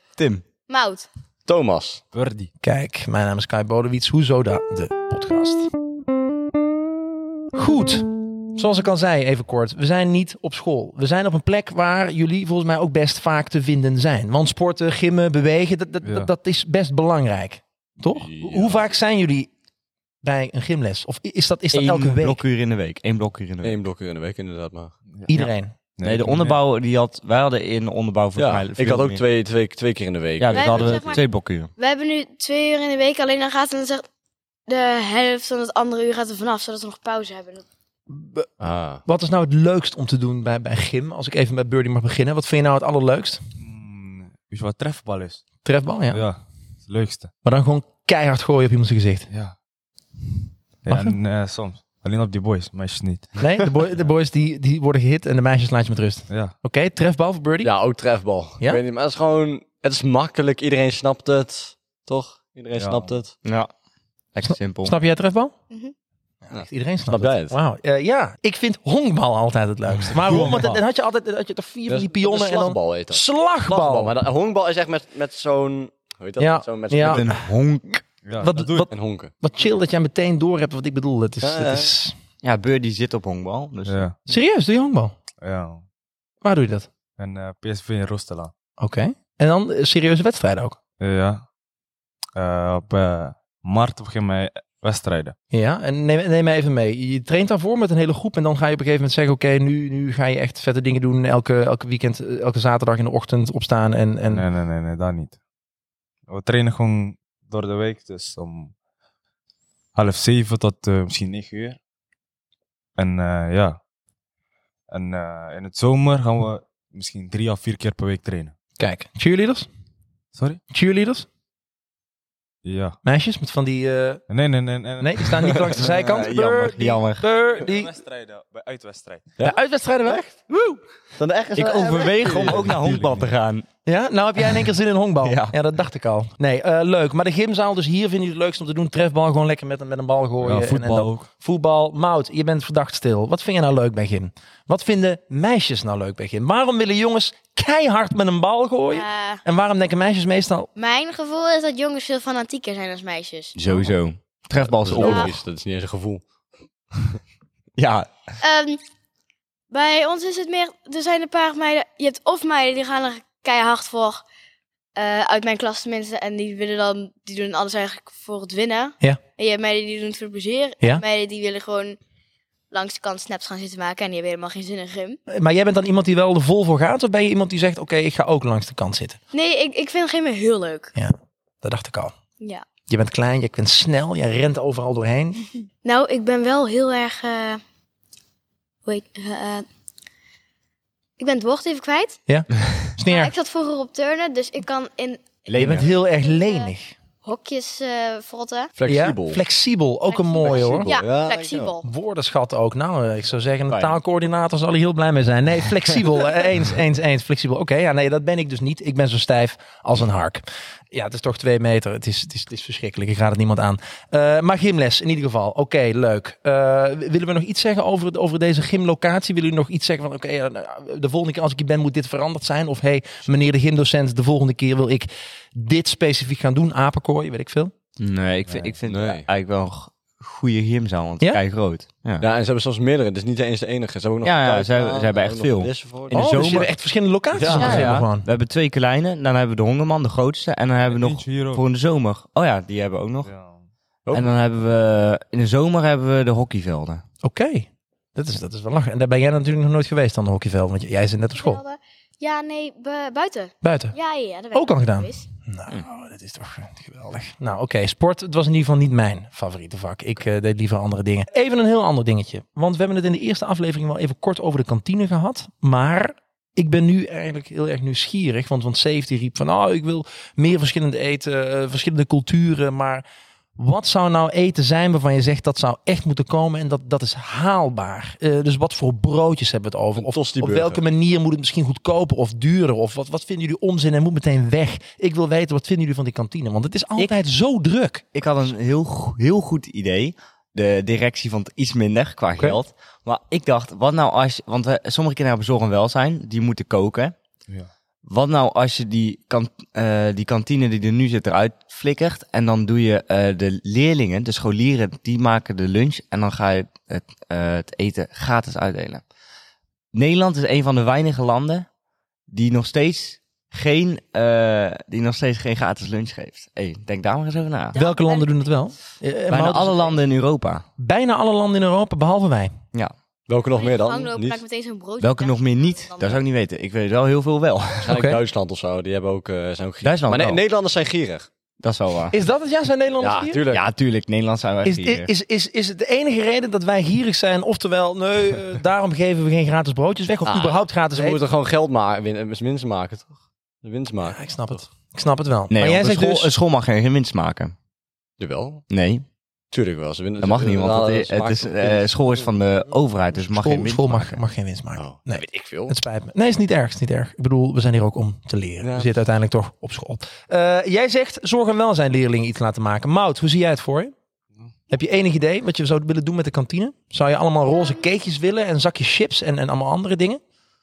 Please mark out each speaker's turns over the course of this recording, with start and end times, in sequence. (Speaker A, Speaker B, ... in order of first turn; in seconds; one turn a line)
Speaker A: 0.2-0.4
Speaker B: 0.7-1.1
Speaker C: 1.5-2.0
Speaker D: 2.1-2.5
Speaker E: 2.6-5.7
Speaker E: 7.5-19.5
Speaker D: 16.0-16.3
Speaker C: 18.2-18.9
Speaker E: 20.2-22.4
Speaker A: 21.7-23.8
Speaker C: 23.6-24.9
Speaker E: 25.3-25.8
Speaker D: 26.0-26.6
Speaker A: 26.0-29.2
Speaker C: 28.4-31.2
Speaker A: 30.4-31.7
Speaker B: 30.5-34.0
Speaker B: 34.7-37.6
Speaker E: 38.1-43.4
Speaker C: 38.6-39.0
Speaker D: 43.6-45.4
Speaker E: 45.6-46.2
Speaker D: 46.1-47.3
Speaker E: 47.4-49.3
Speaker D: 49.3-49.6
Speaker D: 50.9-53.4
Speaker E: 50.9-51.2
Speaker E: 53.4-57.7
Speaker C: 57.6-63.3
Speaker D: 62.8-63.1
Speaker A: 63.4-63.7
Speaker A: 64.3-65.0
Speaker E: 64.5-65.5
Speaker E: 66.5-74.1
Speaker C: 66.5-67.5
Speaker D: 70.0-70.8
Speaker C: 71.9-77.3
Speaker E: 76.4-77.4
Speaker A: 77.0-78.0
Speaker D: 78.2-78.9
Speaker E: 78.4-82.2
Speaker C: 78.9-79.3
Speaker C: 81.4-81.9
Speaker A: 82.4-84.1
Speaker D: 83.9-84.2
Speaker E: 84.3-85.2
Speaker D: 85.4-85.8
Speaker E: 86.4-86.9
Speaker D: 87.2-88.5
Speaker E: 88.8-90.8
Speaker D: 91.0-91.4
Speaker D: 92.4-95.3
Speaker E: 95.5-104.5
Speaker D: 104.3-105.4
Speaker D: 106.3-108.7
Speaker D: 109.9-111.8
Speaker D: 113.0-113.8
Speaker D: 114.9-118.5
Speaker E: 118.8-119.7
Speaker D: 120.3-120.6
Speaker E: 120.7-121.3
Speaker D: 122.6-123.0
Speaker E: 123.0-124.2
Speaker D: 124.3-125.9
Speaker E: 125.0-128.0
Speaker A: 125.8-127.2
Speaker D: 127.5-129.4
Speaker C: 129.4-130.2
Speaker E: 129.4-130.8
Speaker C: 131.2-132.7
Speaker A: 131.6-133.7
Speaker D: 132.4-133.3
Speaker E: 133.8-150.7
Speaker A: 135.2-135.5
Speaker D: 140.4-141.3
Speaker B: 148.9-149.4
Speaker B: 150.8-153.5
Speaker A: 153.6-155.4
Speaker C: 154.7-156.2
Speaker B: 155.0-155.3
Speaker A: 157.8-158.1
Speaker B: 158.4-158.8
Speaker B: 159.7-164.2
Speaker B: 164.9-172.0
Speaker B: 172.7-175.2
Speaker E: 175.3-179.2
Speaker B: 179.3-180.9
Speaker E: 181.0-182.2
Speaker E: 182.9-185.5
Speaker B: 185.8-187.6
Speaker B: 188.8-189.7
Speaker B: 191.2-192.2
Speaker E: 192.3-193.3
Speaker B: 193.1-196.7
Speaker A: 195.5-195.9
Speaker E: 195.6-196.9
Speaker B: 197.2-198.7
Speaker C: 198.8-199.4
Speaker E: 198.8-200.9
Speaker B: 200.1-201.8
Speaker C: 200.4-201.8
Speaker E: 201.8-227.7
Speaker A: 203.7-204.0
Speaker A: 228.0-232.3
Speaker D: 228.5-228.7
Speaker C: 228.8-229.3
Speaker C: 232.2-236.7
Speaker A: 234.2-236.7
Speaker E: 236.1-238.3
Speaker A: 237.4-243.3
Speaker C: 237.4-237.9
Speaker B: 237.6-237.9
Speaker D: 240.9-241.6
Speaker D: 243.2-243.6
Speaker C: 244.1-244.3
Speaker A: 244.1-247.0
Speaker E: 247.2-251.6
Speaker B: 251.4-255.2
Speaker E: 253.6-253.9
Speaker E: 254.5-273.1
Speaker E: 273.6-288.1
Speaker C: 280.0-280.8
Speaker A: 288.1-297.1
Speaker A: 298.1-309.0
Speaker A: 309.9-311.7
Speaker A: 312.3-317.8
Speaker B: 317.7-318.5
Speaker E: 317.8-319.9
Speaker A: 319.3-320.6
Speaker E: 320.8-322.6
Speaker C: 323.3-324.4
Speaker B: 323.5-326.2
Speaker A: 325.0-328.0
Speaker C: 327.8-331.3
Speaker E: 327.9-328.2
Speaker A: 329.8-330.4
Speaker A: 331.6-332.1
Speaker E: 332.1-333.4
Speaker C: 333.0-333.6
Speaker A: 333.5-335.1
Speaker E: 334.6-341.2
Speaker C: 340.3-344.6
Speaker E: 344.1-346.3
Speaker A: 345.5-347.6
Speaker C: 348.2-348.6
Speaker A: 348.7-349.1
Speaker C: 349.5-352.3
Speaker A: 350.2-354.2
Speaker E: 353.3-363.9
Speaker C: 354.8-355.8
Speaker C: 358.6-358.9
Speaker E: 364.7-370.2
Speaker B: 367.5-367.8